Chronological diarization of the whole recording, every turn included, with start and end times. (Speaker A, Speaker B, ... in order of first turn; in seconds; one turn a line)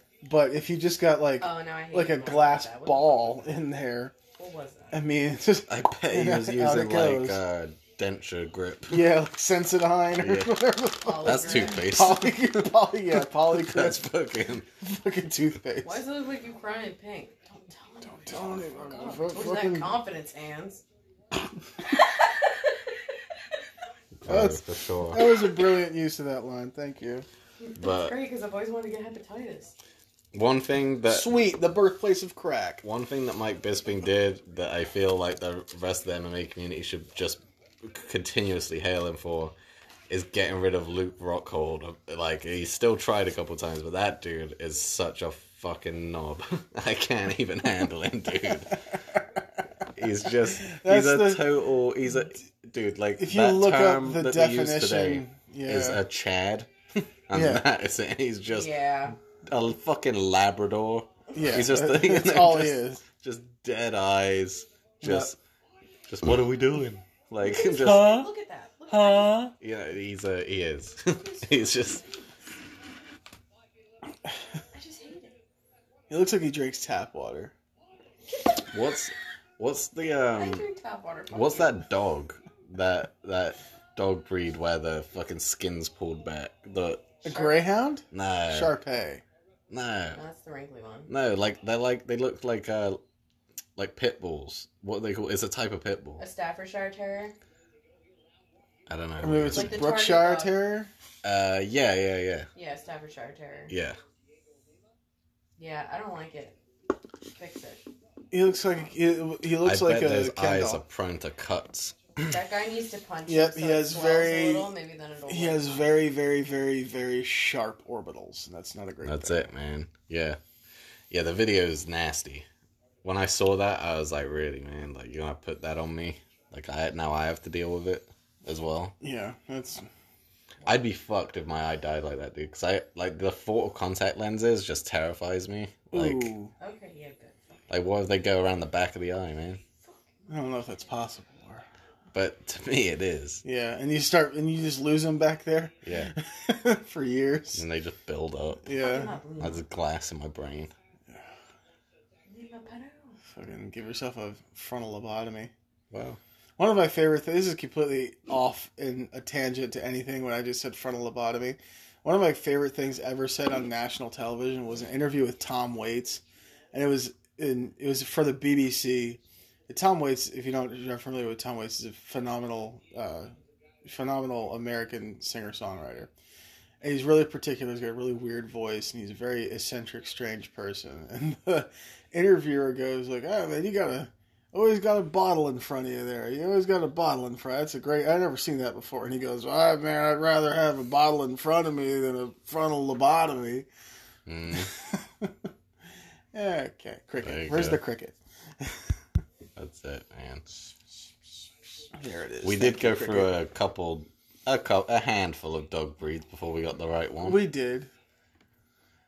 Speaker A: 0.2-4.1
Speaker B: 1.4-3.5
Speaker B: 4.4-5.0
Speaker A: 4.9-7.4
Speaker C: 5.7-9.1
Speaker A: 8.9-14.0
Speaker C: 10.2-10.5
Speaker B: 11.0-11.8
Speaker C: 11.2-12.4
Speaker C: 13.2-14.7
Speaker A: 14.8-16.0
Speaker B: 15.8-20.8
Speaker A: 18.3-20.0
Speaker B: 21.8-22.9
Speaker C: 24.2-25.2
Speaker A: 24.3-27.3
Speaker B: 27.6-29.8
Speaker C: 27.8-28.1
Speaker C: 30.3-31.3
Speaker A: 31.1-32.8
Speaker C: 32.8-39.5
Speaker C: 40.1-48.8
Speaker A: 48.9-49.2
Speaker C: 50.0-56.7
Speaker A: 50.6-51.4
Speaker A: 53.2-56.0
Speaker C: 57.3-58.8
Speaker A: 57.3-57.7
Speaker B: 58.5-59.2
Speaker C: 59.3-65.4
Speaker A: 61.3-63.0
Speaker A: 65.0-65.3
Speaker C: 66.1-68.2
Speaker B: 67.4-69.5
Speaker A: 67.5-68.3
Speaker A: 68.9-69.5
Speaker C: 69.6-72.0
Speaker B: 71.1-72.2
Speaker B: 74.7-75.3
Speaker A: 76.1-77.5
Speaker B: 78.3-78.6
Speaker C: 78.7-80.6
Speaker B: 80.4-81.8
Speaker C: 81.3-87.1
Speaker A: 87.2-89.2
Speaker B: 87.3-87.6
Speaker C: 88.1-88.7
Speaker C: 89.7-90.2
Speaker B: 90.2-91.1
Speaker C: 91.1-93.0
Speaker C: 93.8-96.2
Speaker B: 96.2-97.3
Speaker C: 98.9-99.8
Speaker A: 99.2-100.9
Speaker B: 99.5-100.5
Speaker C: 101.2-102.5
Speaker B: 102.5-103.7
Speaker C: 103.7-104.0
Speaker B: 105.6-106.6
Speaker B: 107.4-107.9
Speaker A: 108.3-110.8
Speaker C: 109.6-112.3
Speaker B: 112.2-115.9
Speaker A: 113.3-114.7
Speaker A: 115.3-119.5
Speaker C: 119.0-120.4
Speaker C: 121.1-122.5
Speaker C: 123.0-128.9
Speaker A: 129.0-129.9
Speaker C: 130.7-136.3
Speaker A: 135.9-136.5
Speaker B: 136.6-137.6
Speaker C: 137.7-139.6
Speaker A: 140.3-141.7
Speaker C: 142.1-143.4
Speaker A: 143.4-147.6
Speaker C: 145.8-146.1
Speaker C: 147.6-148.7
Speaker A: 148.7-149.2
Speaker B: 148.8-149.6
Speaker C: 149.4-150.7
Speaker B: 152.3-153.2
Speaker A: 153.3-155.5
Speaker C: 155.9-156.2
Speaker A: 156.6-166.2
Speaker A: 166.7-173.3
Speaker A: 173.8-176.1
Speaker A: 176.8-193.7
Speaker C: 194.3-194.7
Speaker A: 194.6-195.5
Speaker A: 196.3-199.0
Speaker C: 197.2-197.8
Speaker C: 199.6-200.4
Speaker A: 201.9-203.3
Speaker C: 202.4-207.4
Speaker A: 207.2-207.9